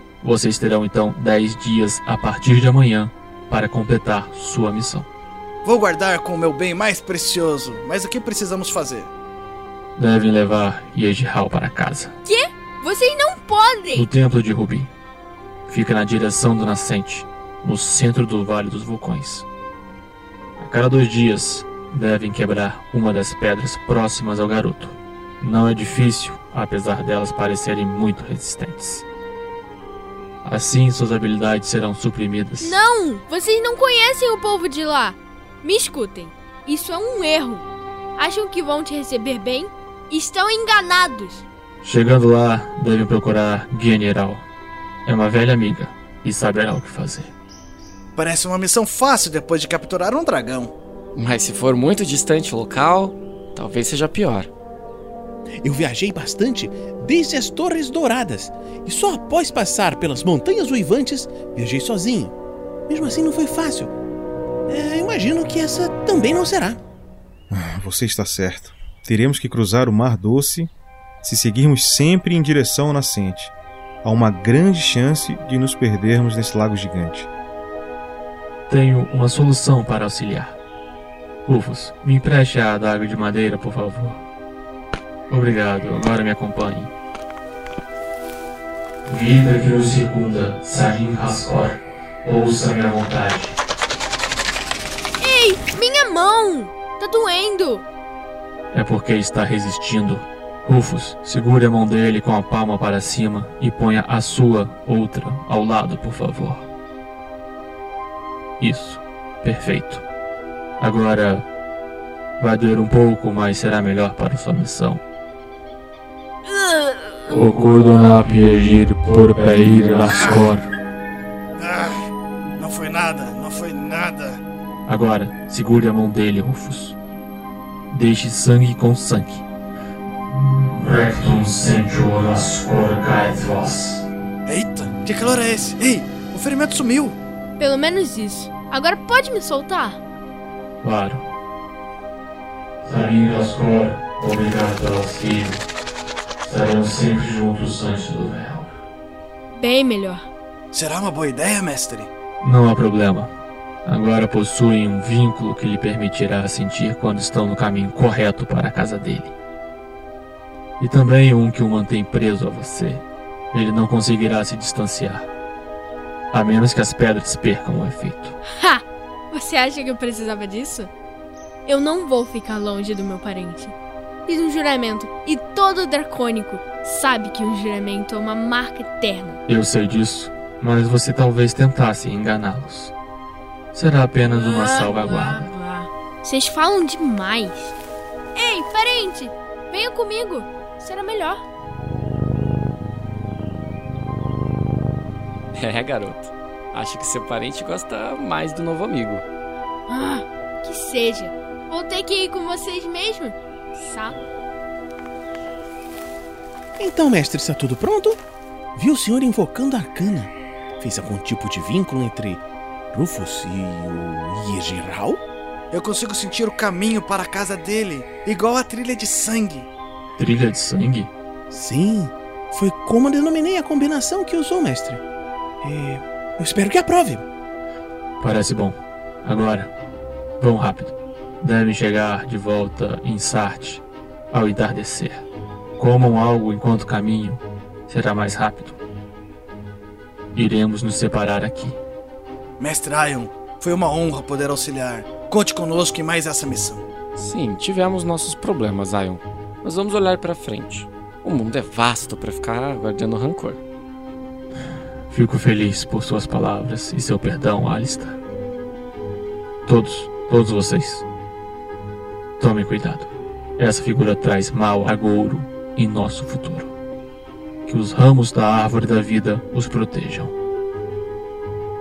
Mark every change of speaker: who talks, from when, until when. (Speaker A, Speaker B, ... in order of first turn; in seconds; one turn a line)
Speaker A: 0.2-5.1
Speaker B: 5.6-9.1
Speaker A: 10.0-12.2
Speaker C: 12.2-14.1
Speaker A: 13.9-14.9
Speaker A: 15.7-19.5
Speaker A: 20.6-29.1
Speaker A: 30.4-32.8
Speaker C: 32.6-37.7
Speaker C: 38.2-41.5
Speaker A: 41.8-44.5
Speaker A: 45.1-47.3
Speaker B: 48.2-50.7
Speaker D: 51.1-54.5
Speaker E: 55.6-62.3
Speaker E: 62.9-63.9
Speaker E: 64.7-66.8
Speaker F: 67.5-70.7
Speaker F: 71.2-77.3
Speaker A: 78.7-80.6
Speaker A: 81.5-84.2
Speaker A: 85.3-86.9
Speaker A: 89.1-93.5
Speaker C: 95.2-97.8
Speaker A: 98.7-106.7
Speaker A: 108.6-110.0
Speaker A: 110.8-111.5
Speaker A: 112.4-115.0
Speaker C: 116.5-117.1
Speaker A: 117.3-120.7
Speaker B: 121.6-122.0
Speaker B: 122.6-124.4
Speaker A: 124.9-127.0
Speaker A: 127.9-129.4
Speaker A: 130.3-134.1
Speaker B: 134.5-137.2
Speaker C: 137.6-140.0
Speaker A: 140.8-141.3
Speaker A: 142.8-145.6
Speaker A: 146.4-148.7
Speaker C: 149.5-150.3
Speaker B: 150.7-152.1
Speaker A: 152.4-153.3
Speaker A: 153.8-159.3
Speaker A: 160.8-165.3
Speaker A: 166.3-168.4
Speaker C: 168.5-170.9
Speaker C: 171.7-179.4
Speaker A: 179.5-182.9
Speaker A: 183.7-185.5
Speaker C: 184.2-187.7
Speaker C: 188.3-191.4
Speaker D: 195.5-199.2
Speaker C: 199.9-204.2
Speaker E: 206.8-208.2
Speaker E: 208.8-212.4
Speaker E: 212.9-215.2
Speaker B: 215.7-219.7
Speaker A: 220.2-221.1
Speaker E: 221.5-225.0
Speaker E: 225.6-227.2
Speaker A: 228.2-229.7
Speaker A: 230.4-235.2
Speaker A: 235.8-238.8
Speaker A: 240.3-241.8
Speaker B: 242.6-246.8
Speaker D: 247.2-253.6
Speaker A: 255.1-258.2
Speaker A: 259.7-261.1
Speaker A: 262.4-266.7
Speaker A: 267.7-270.3